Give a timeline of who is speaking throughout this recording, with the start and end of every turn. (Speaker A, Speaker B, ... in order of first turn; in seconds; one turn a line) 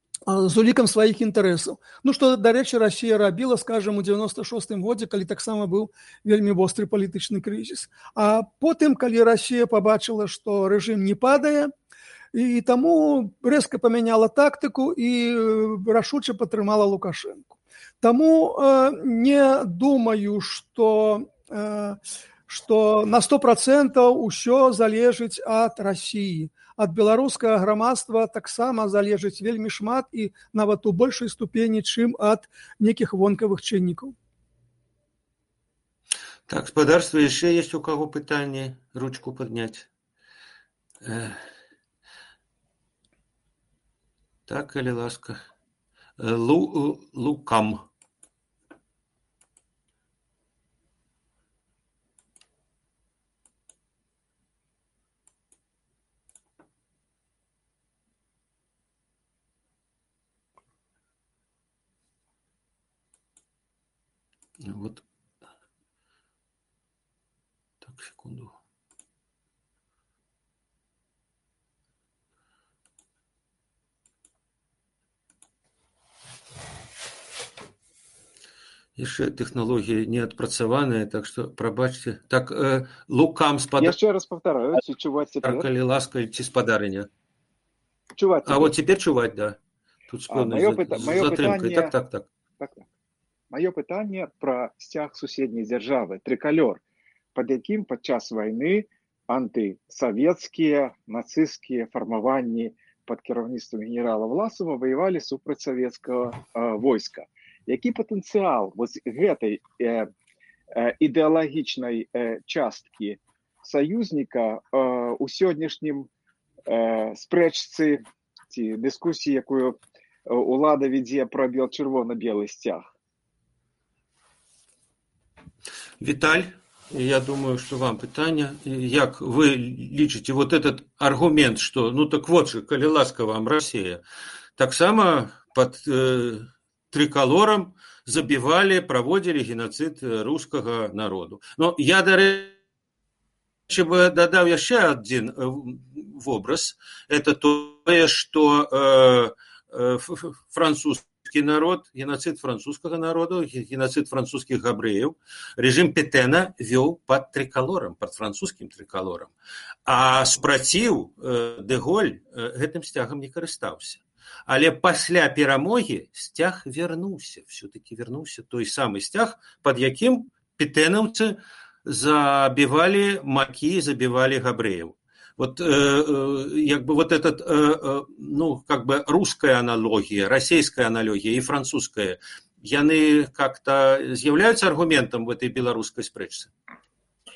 Speaker A: 0.3-11.7
Speaker A: 12.3-34.1
Speaker B: 36.5-39.9
Speaker B: 41.0-41.4
Speaker B: 44.5-45.4
Speaker B: 46.2-47.9
Speaker B: 64.6-65.0
Speaker B: 67.8-68.5
Speaker B: 79.0-84.0
Speaker C: 83.8-85.7
Speaker B: 85.4-87.1
Speaker C: 88.2-88.7
Speaker B: 88.4-89.6
Speaker B: 90.1-92.3
Speaker C: 90.3-91.9
Speaker C: 92.6-92.9
Speaker C: 93.5-96.8
Speaker C: 97.3-110.1
Speaker C: 110.7-116.1
Speaker C: 116.7-122.9
Speaker B: 126.0-134.0
Speaker B: 134.6-142.5
Speaker B: 143.7-159.3
Speaker B: 159.8-186.5